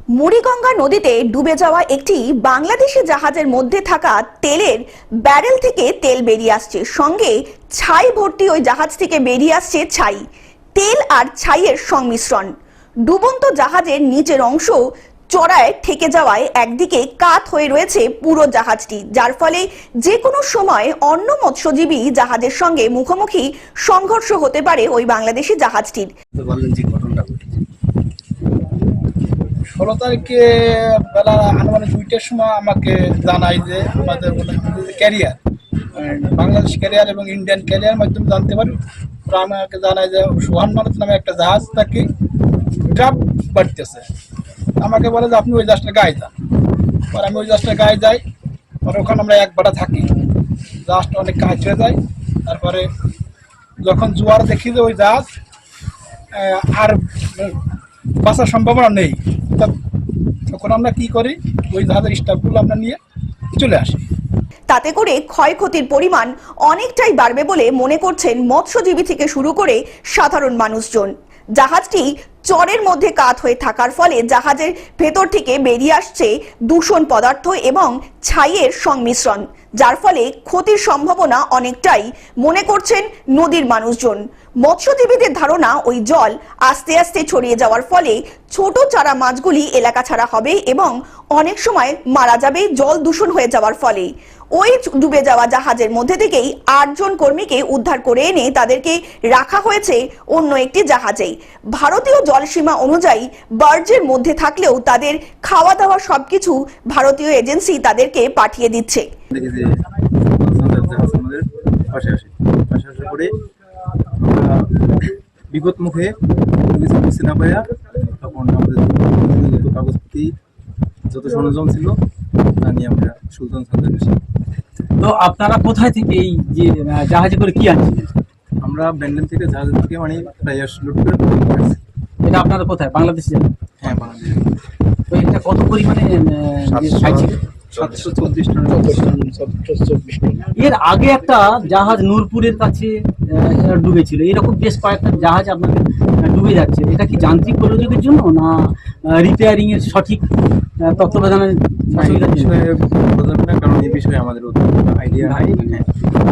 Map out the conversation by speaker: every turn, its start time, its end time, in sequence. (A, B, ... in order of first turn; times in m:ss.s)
0:00.1-0:10.2 A
0:10.8-0:12.5 A
0:13.0-0:14.8 A
0:15.3-0:26.1 A
0:26.6-0:27.1 B
0:29.8-0:35.4 C
0:35.9-0:42.1 C
0:42.8-0:44.0 C
0:44.8-0:46.3 C
0:47.1-0:48.2 C
0:48.8-0:50.1 C
0:50.8-0:52.9 C
0:53.8-0:55.3 C
0:56.3-0:57.6 C
0:58.2-0:59.7 C
1:00.5-1:03.0 C
1:03.5-1:04.0 C
1:04.7-1:49.1 A
1:49.3-1:49.7 B
1:50.3-1:53.3 B
1:54.2-2:00.3 B
2:01.1-2:02.0 B
2:02.6-2:04.2 B
2:05.0-2:08.1 D
2:08.6-2:11.8 B
2:12.2-2:13.5 D
2:13.8-2:14.4 B
2:15.1-2:17.4 D
2:16.7-2:19.2 B
2:18.7-2:20.5 C
2:20.6-2:28.5 D
2:29.1-2:30.2 D
2:30.8-2:32.6 D
2:31.9-2:35.8 B
2:35.2-2:35.8 D